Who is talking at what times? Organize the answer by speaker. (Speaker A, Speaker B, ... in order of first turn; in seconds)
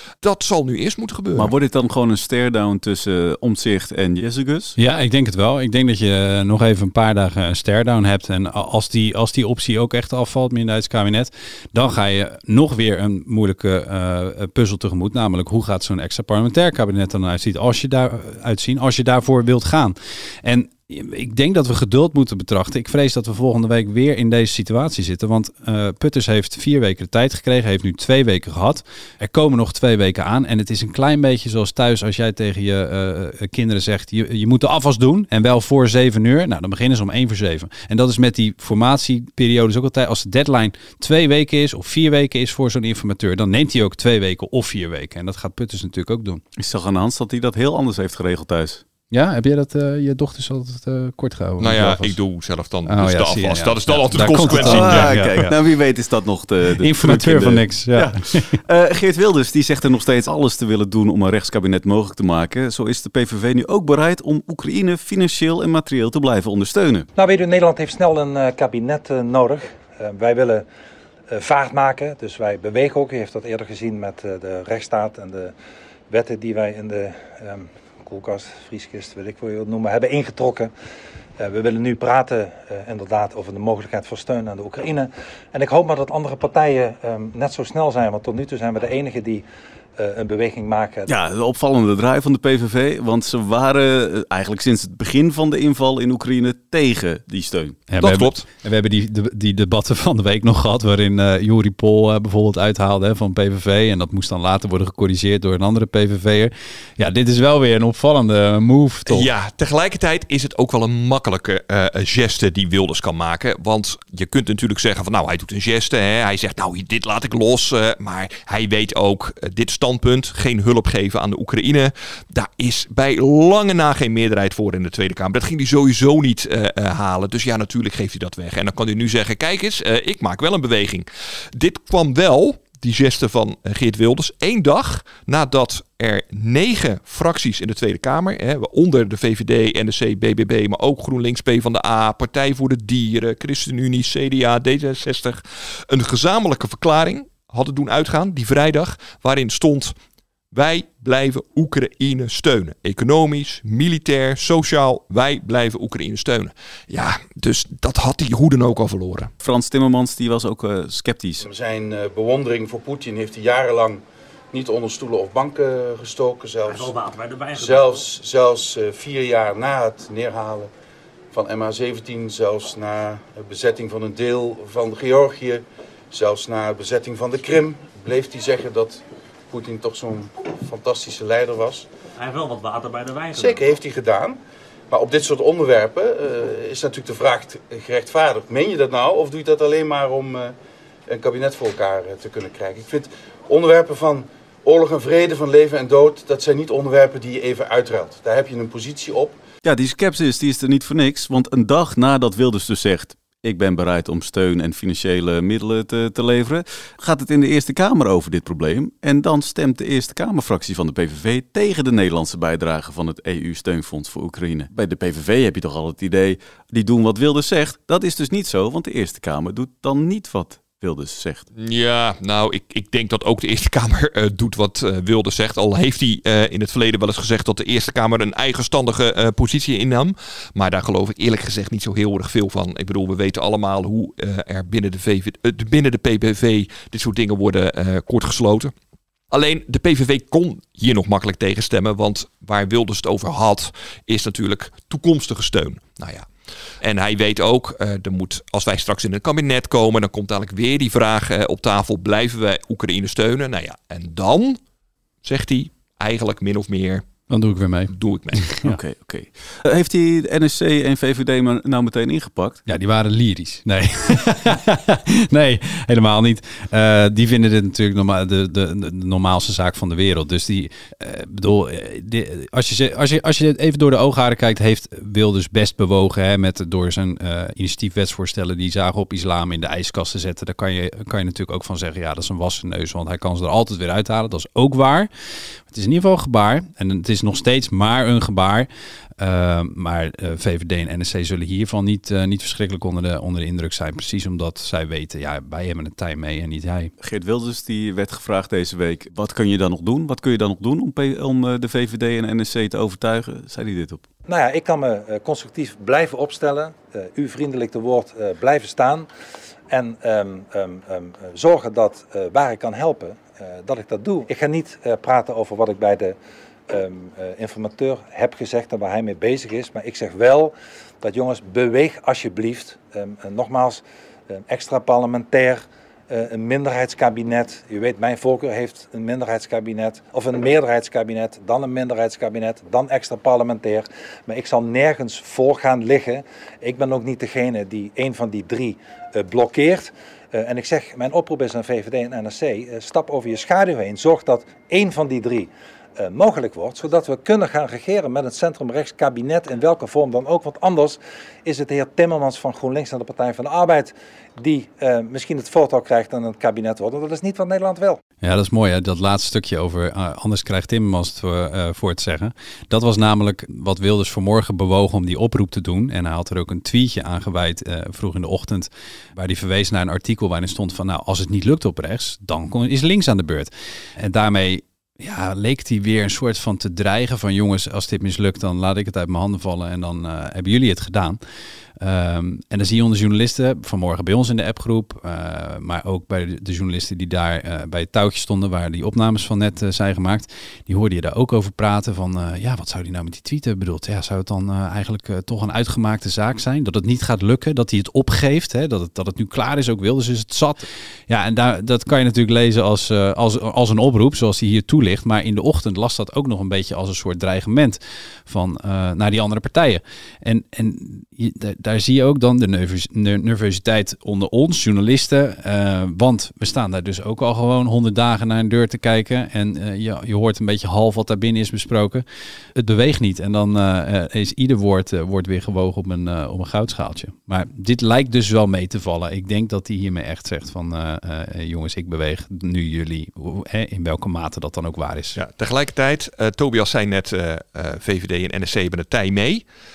Speaker A: 0.2-1.5, 51.6-55.5, 98.0-98.5, 109.0-149.9, 150.5-159.3, 221.6-238.7, 239.3-246.3, 246.8-254.6, 255.2-257.0, 257.9-258.6, 435.1-439.4
Speaker B: 1.3-4.8, 46.6-48.8, 54.5-67.1, 91.1-97.8, 159.4-161.4, 199.6-221.4, 258.6-262.6, 297.0-304.0
Speaker C: 4.8-46.4, 49.1-52.2, 52.9-55.5, 56.8-58.6, 97.9-109.3, 257.3-257.9, 262.6-285.1, 285.7-288.7, 289.2-296.9, 358.2-381.2, 381.8-422.0, 422.6-435.2
Speaker D: 67.2-70.6, 71.3-75.5, 76.1-80.7, 81.4-89.4, 90.0-91.1, 304.3-309.1, 309.7-316.1, 316.7-358.0
Speaker E: 161.4-164.0, 164.5-167.0, 167.5-170.7, 171.3-181.9, 183.3-184.4, 184.9-190.5, 191.1-199.4
Speaker F: 166.7-168.0, 182.2-183.7